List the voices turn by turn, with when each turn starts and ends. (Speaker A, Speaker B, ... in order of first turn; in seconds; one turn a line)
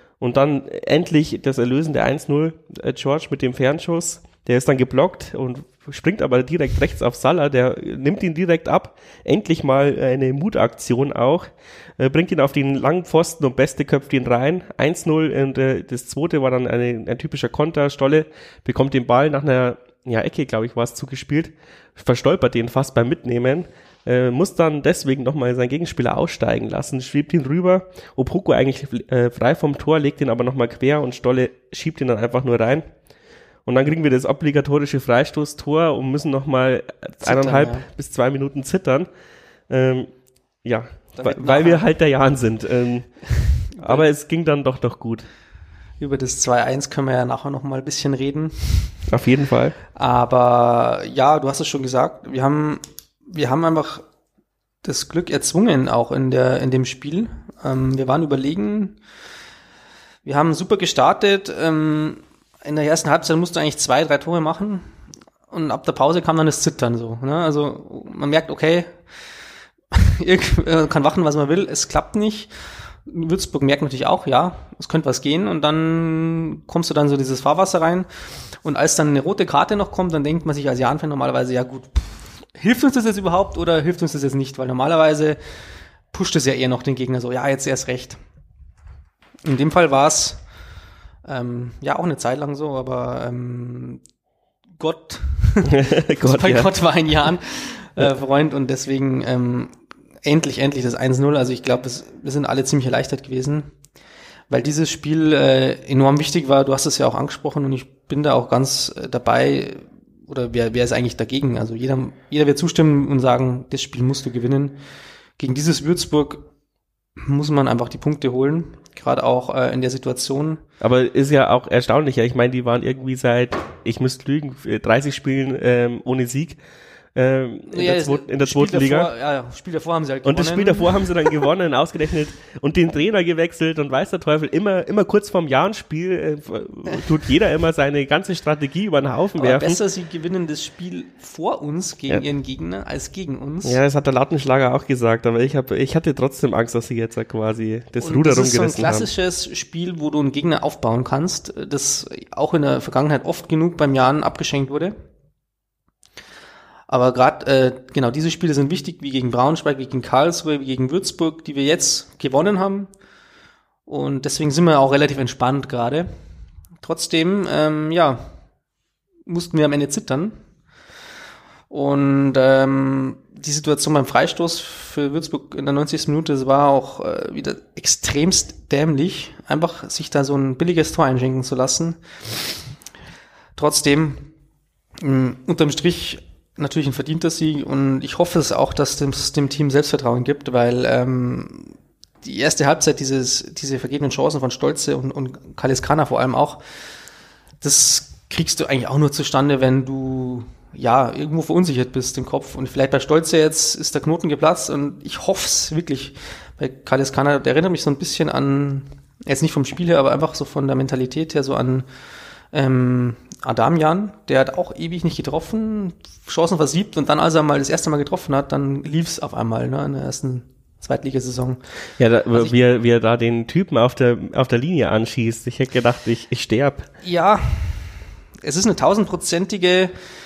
Speaker A: 0.2-32.9
Speaker A: 33.6-39.1
Speaker B: 37.2-37.9
Speaker A: 39.7-40.1
Speaker A: 40.6-45.3
Speaker B: 41.1-41.8
Speaker B: 43.4-44.0
Speaker B: 46.0-49.0
Speaker A: 49.1-49.7
Speaker B: 49.9-54.0
Speaker B: 54.8-59.0
Speaker B: 60.2-64.9
Speaker B: 65.5-69.0
Speaker B: 69.9-72.5
Speaker B: 73.0-78.1
Speaker B: 78.6-85.4
Speaker B: 86.1-88.2
Speaker B: 89.4-90.4
Speaker B: 91.2-94.0
Speaker B: 94.8-103.7
Speaker A: 95.7-96.7
Speaker B: 104.5-114.8
Speaker B: 115.4-116.4
Speaker B: 117.2-120.6
Speaker A: 120.8-126.6
Speaker A: 127.1-129.1
Speaker B: 127.7-131.1
Speaker A: 130.2-139.8
Speaker B: 139.4-143.8
Speaker A: 143.6-149.1
Speaker B: 148.0-154.9
Speaker B: 156.9-162.9
Speaker B: 163.9-166.1
Speaker B: 166.8-168.2
Speaker B: 169.3-170.3
Speaker B: 171.7-182.6
Speaker B: 183.6-184.3
Speaker B: 185.0-196.6
Speaker B: 197.6-211.8
Speaker B: 212.5-221.6
Speaker A: 222.0-226.9
Speaker B: 227.0-229.9